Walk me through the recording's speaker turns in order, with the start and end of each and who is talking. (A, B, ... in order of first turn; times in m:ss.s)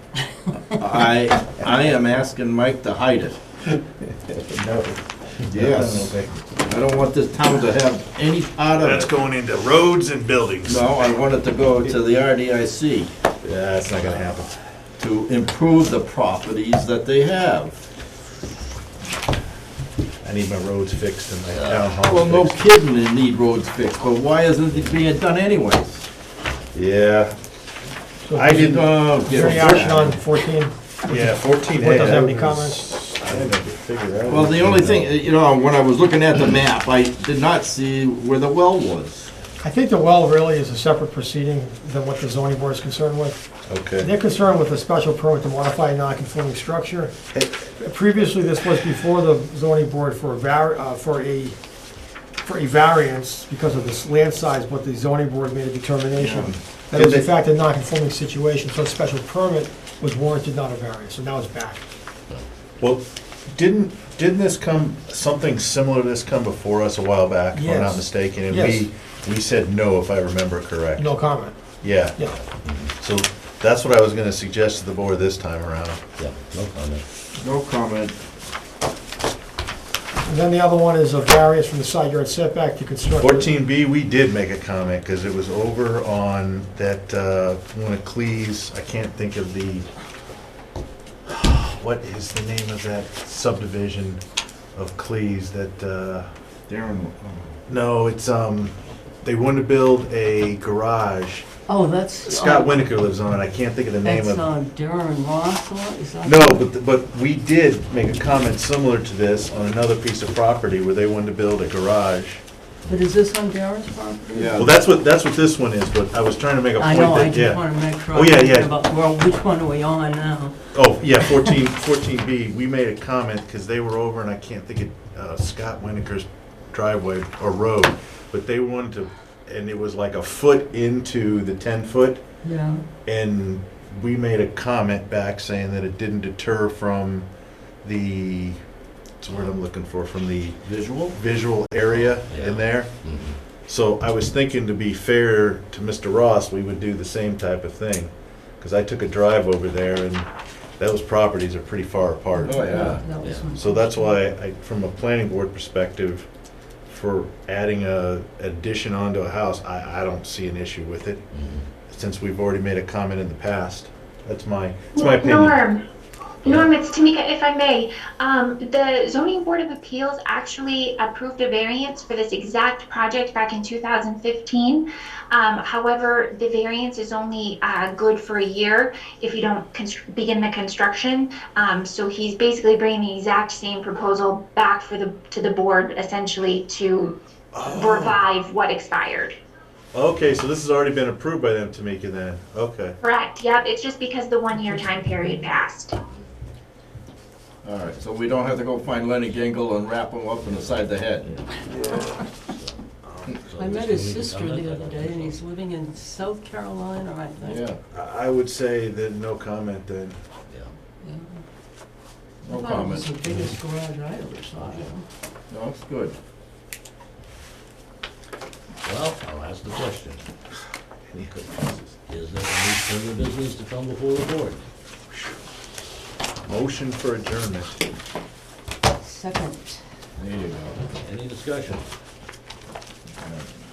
0:00.8-0:03.4 A
0:04.2-0:06.4 B
0:05.5-0:06.1 A
0:06.6-0:09.1 A
0:08.8-0:10.9 B
0:10.6-0:13.1 A
0:13.4-0:14.5 B
0:15.0-0:17.7 A
0:20.2-0:22.6 B
0:21.5-0:26.0 A
0:26.7-0:27.4 B
0:28.2-0:32.9 C
0:28.3-0:30.0 B
0:28.6-0:30.1 A
0:31.1-0:35.1 B
0:34.3-0:39.3 A
0:39.6-0:43.4 C
0:43.7-0:44.1 B
0:44.0-0:47.1 C
0:47.3-0:47.7 B
0:47.8-0:51.6 C
0:52.4-1:01.8 C
0:56.2-0:56.6 A
0:56.9-0:57.3 B
1:02.8-1:11.1 B
1:07.5-1:08.9 C
1:11.0-1:11.6 C
1:11.8-1:12.2 B
1:12.6-1:12.9 D
1:13.0-1:16.0 B
1:16.2-1:17.0 D
1:17.3-1:18.1 A
1:20.2-1:23.5 C
1:23.2-1:29.8 B
1:31.2-1:34.2 B
1:34.7-1:36.3 B
1:36.7-1:37.5 A
1:37.7-1:41.5 B
1:41.7-1:42.8 E
1:42.2-1:44.5 B
1:44.0-1:46.7 E
1:46.2-1:52.4 B
1:52.9-1:54.6 E
1:54.3-1:54.7 A
1:54.5-1:58.7 B
1:56.8-2:00.5 E
2:00.7-2:12.2 B
2:12.4-2:12.8 E
2:13.0-2:17.2 B
2:17.8-2:18.6 B
2:19.2-2:20.6 B
2:20.6-2:21.2 D
2:21.1-2:22.9 B
2:22.2-2:23.4 D
2:23.7-2:30.3 B
2:30.8-2:33.0 B
2:32.4-2:34.2 E
2:32.4-2:33.0 A
2:33.1-2:33.6 D
2:33.5-2:36.3 B
2:36.9-2:41.2 B
2:41.3-2:41.6 D
2:41.9-2:45.6 B
2:44.9-2:45.8 F
2:46.4-3:09.4 F
3:07.5-3:08.2 B
3:09.9-3:13.0 B
3:13.0-3:16.0 F
3:17.6-3:21.4 A
3:20.4-3:20.8 D
3:22.4-3:22.8 D
3:23.0-3:23.3 B
3:23.4-3:25.4 D
3:23.6-3:27.6 E
3:27.4-3:27.8 A
3:27.9-3:30.2 B
3:31.0-3:31.4 E
3:32.4-3:33.1 A
3:32.5-3:35.0 E
3:34.6-3:34.9 D
3:35.5-3:36.1 A
3:38.8-3:40.2 D
3:41.2-3:44.6 D
3:46.4-3:47.8 B
3:49.0-3:49.8 E
3:50.2-3:51.0 A
3:51.0-3:51.8 D
3:53.2-3:53.5 A